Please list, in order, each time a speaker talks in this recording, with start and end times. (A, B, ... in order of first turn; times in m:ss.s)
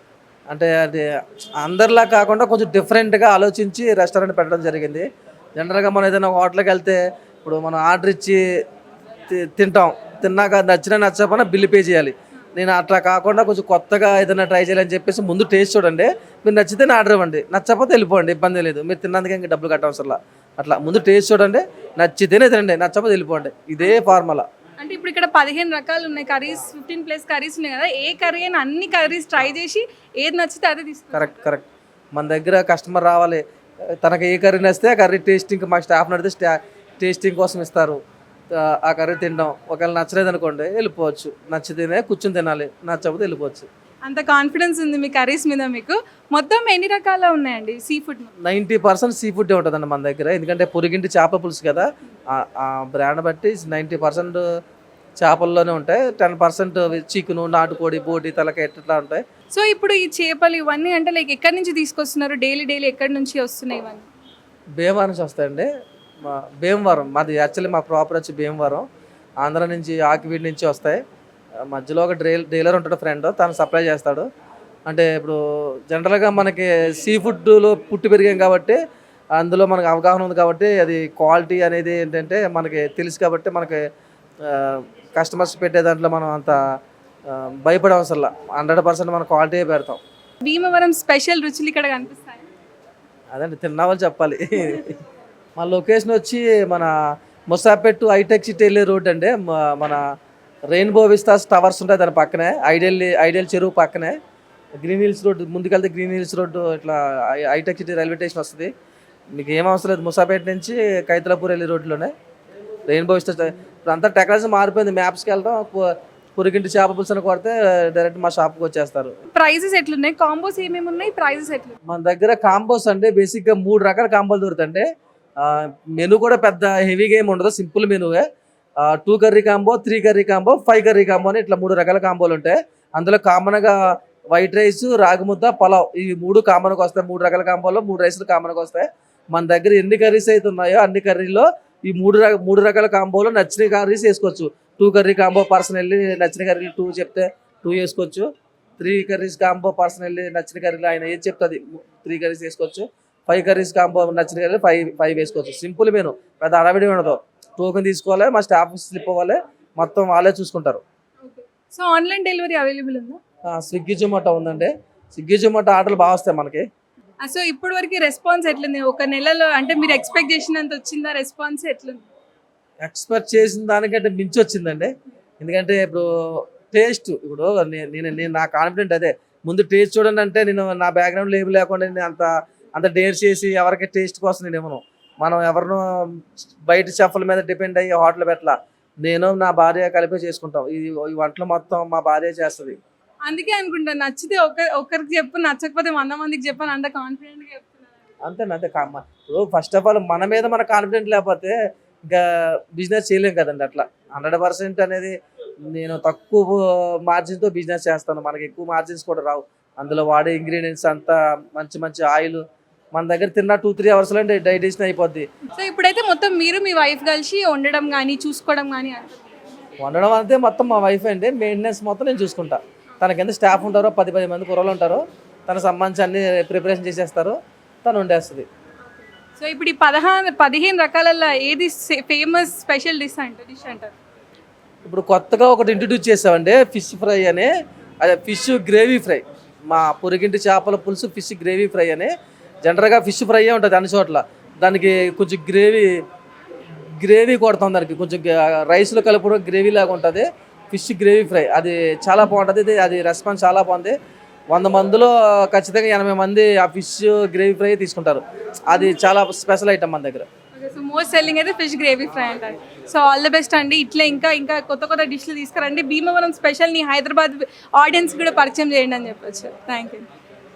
0:00.5-0:08.4 A
0:09.3-0:24.4 A
0:23.8-0:24.1 B
0:24.8-0:31.5 B
0:31.1-0:33.4 A
0:34.0-0:38.0 A
0:38.5-0:43.7 A
0:44.0-0:48.3 B
0:48.4-0:54.4 A
0:55.2-0:59.2 A
0:59.5-1:04.1 B
1:04.8-1:05.7 A
1:06.2-1:08.8 A
1:09.4-1:11.0 A
1:11.6-1:14.3 A
1:14.9-1:18.8 A
1:19.4-1:23.8 A
1:24.4-1:26.6 A
1:27.3-1:30.0 A
1:30.4-1:32.4 B
1:33.3-1:35.0 A
1:35.6-1:36.9 A
1:37.5-1:40.0 A
1:40.7-1:44.2 A
1:44.8-1:48.7 A
1:49.3-1:52.1 A
1:52.9-1:59.1 A
1:59.3-2:01.8 B
2:01.9-2:04.9 A
2:05.4-2:08.3 A
2:08.8-2:13.8 A
2:14.3-2:40.8 A
2:41.2-2:43.2 B
2:43.5-2:46.6 A
2:47.2-2:52.0 B
2:52.8-3:12.8 A
3:13.2-3:18.0 B
3:18.2-3:21.6 A
3:22.1-3:25.1 A
3:25.7-3:35.3 A
3:35.5-3:39.3 B
3:39.8-3:48.4 A
3:49.3-3:53.9 B
3:54.8-4:06.0 A
4:07.0-4:13.9 A
4:14.5-4:20.3 A
4:20.5-4:30.0 B